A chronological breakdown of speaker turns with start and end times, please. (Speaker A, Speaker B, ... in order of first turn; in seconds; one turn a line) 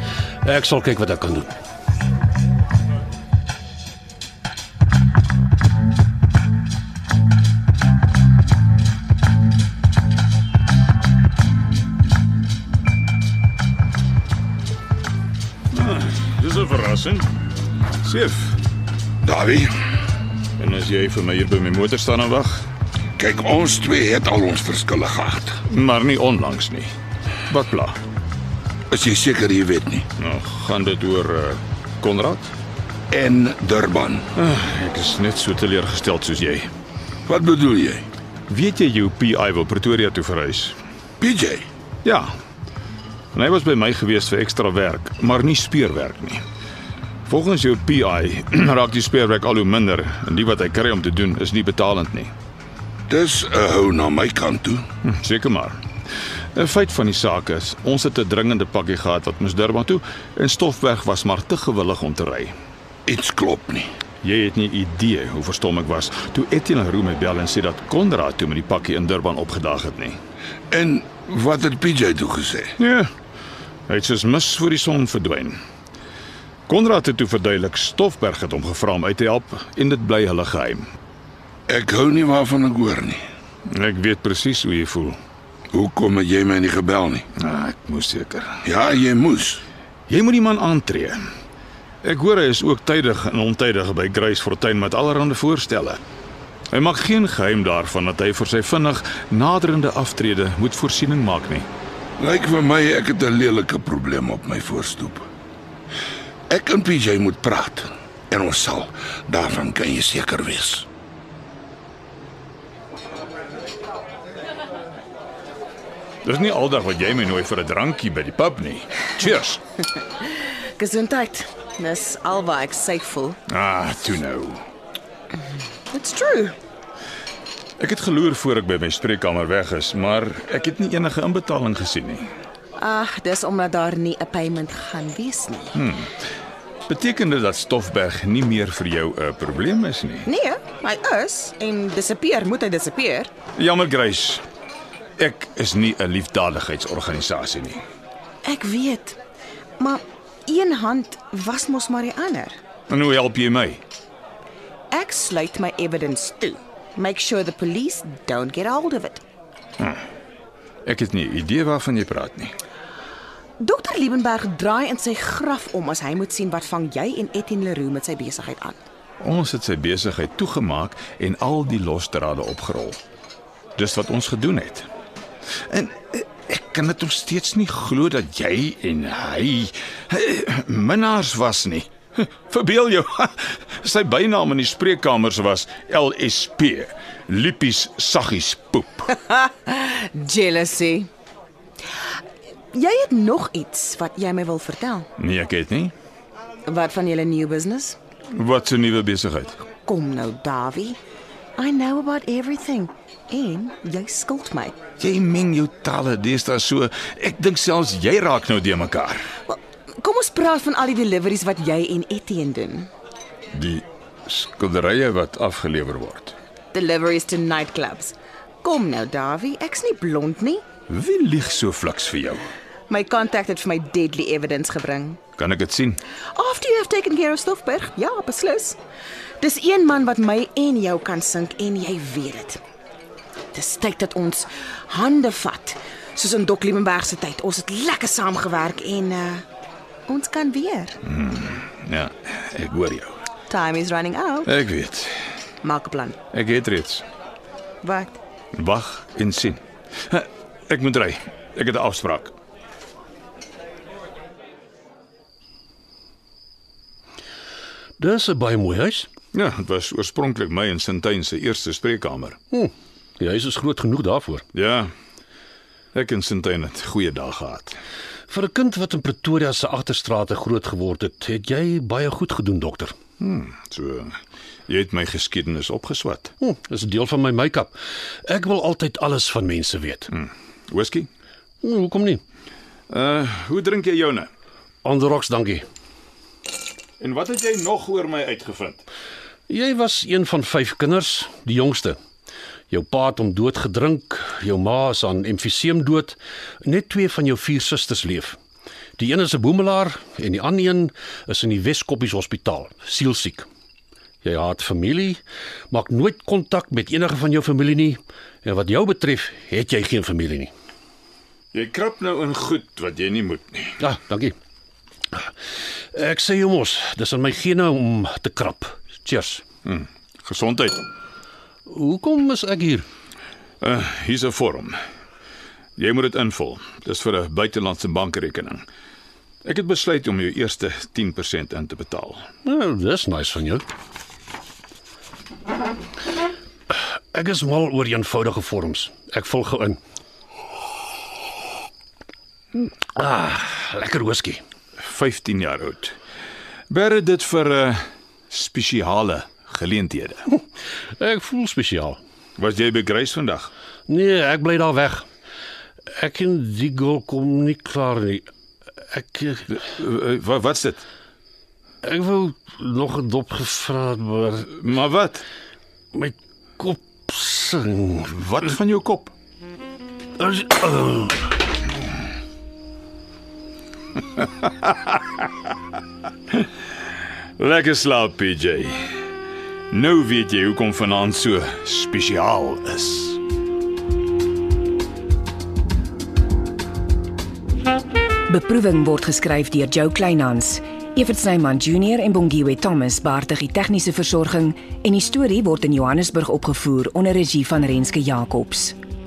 Speaker A: 0.5-1.5
Speaker B: 15.7-17.3
Speaker B: 18.0-18.6
Speaker C: 19.2-19.7
Speaker B: 20.6-22.6
Speaker C: 23.2-25.6
Speaker B: 25.7-26.9
Speaker B: 27.5-28.0
Speaker C: 28.9-30.1
Speaker B: 30.2-32.5
Speaker C: 33.1-34.3
Speaker B: 34.4-36.7
Speaker C: 37.3-38.1
Speaker B: 38.5-40.8
Speaker C: 41.2-41.7
Speaker B: 42.0-42.3
Speaker B: 43.4-46.4
Speaker B: 47.3-52.3
Speaker C: 53.1-54.9
Speaker B: 55.0-55.8
Speaker B: 56.5-62.5
Speaker C: 63.1-63.9
Speaker B: 64.2-70.2
Speaker C: 70.7-72.8
Speaker B: 72.8-73.1
Speaker B: 73.9-75.6
Speaker B: 76.7-80.9
Speaker C: 81.7-83.2
Speaker B: 83.7-85.2
Speaker C: 85.7-87.3
Speaker B: 87.4-88.6
Speaker C: 88.6-89.6
Speaker B: 90.1-91.2
Speaker B: 92.0-96.0
Speaker B: 96.7-101.7
Speaker C: 102.2-105.3
Speaker C: 106.5-110.9
Speaker B: 116.2-119.6
Speaker D: 120.8-123.4
Speaker B: 123.5-124.6
Speaker D: 125.9-126.5
Speaker B: 127.8-132.3
Speaker D: 132.8-135.8
Speaker B: 135.8-136.1
Speaker B: 136.9-140.3
Speaker D: 140.3-143.3
Speaker B: 143.6-144.4
Speaker B: 145.2-147.8
Speaker D: 148.4-149.2
Speaker D: 149.8-152.6
Speaker B: 152.9-153.8
Speaker D: 154.9-159.2
Speaker B: 160.8-162.6
Speaker D: 163.6-168.8
Speaker B: 169.2-173.0
Speaker B: 173.8-174.9
Speaker B: 175.7-189.2
Speaker D: 189.2-191.1
Speaker D: 192.7-195.1
Speaker B: 195.2-195.9
Speaker D: 196.7-198.0
Speaker B: 198.3-199.6
Speaker D: 199.8-201.0
Speaker D: 201.6-204.8
Speaker B: 205.0-209.3
Speaker D: 209.5-212.9
Speaker B: 213.5-216.4
Speaker D: 216.7-220.6
Speaker B: 220.9-222.5
Speaker D: 222.9-225.2
Speaker B: 225.4-226.0
Speaker D: 226.3-228.8
Speaker D: 229.4-232.6
Speaker D: 233.5-239.4
Speaker D: 240.1-241.0
Speaker B: 241.1-243.1
Speaker D: 243.5-244.5
Speaker B: 244.5-245.2
Speaker D: 245.6-246.2
Speaker B: 246.3-247.1
Speaker D: 247.8-248.2
Speaker B: 248.6-252.3
Speaker A: 258.0-259.1
Speaker B: 259.3-262.4
Speaker A: 262.5-264.5
Speaker B: 264.5-264.9
Speaker B: 265.9-267.8
Speaker A: 268.3-272.9
Speaker B: 273.2-276.3
Speaker A: 276.4-277.7
Speaker A: 278.3-280.1
Speaker B: 280.1-281.1
Speaker A: 281.6-282.2
Speaker B: 282.9-284.3
Speaker A: 284.9-285.7
Speaker B: 287.0-288.8
Speaker A: 289.5-292.0
Speaker A: 292.7-298.4
Speaker A: 299.0-303.5
Speaker A: 304.2-310.5
Speaker B: 311.5-313.8
Speaker A: 313.8-314.4
Speaker A: 315.9-319.4
Speaker B: 319.6-320.8
Speaker A: 321.7-322.9
Speaker B: 323.6-324.8
Speaker B: 325.8-328.6
Speaker B: 329.4-332.3
Speaker A: 332.4-333.6
Speaker A: 337.1-339.8
Speaker A: 342.6-344.4
Speaker B: 344.8-345.9
Speaker B: 346.7-350.2
Speaker A: 351.0-352.0
Speaker B: 352.4-353.5
Speaker A: 353.9-355.1
Speaker A: 355.9-359.6
Speaker B: 359.6-360.9
Speaker A: 361.8-364.6
Speaker B: 364.6-365.2
Speaker A: 365.9-368.3
Speaker B: 368.2-369.1
Speaker A: 370.2-371.3
Speaker B: 377.4-378.8
Speaker B: 379.7-383.2
Speaker E: 388.3-398.8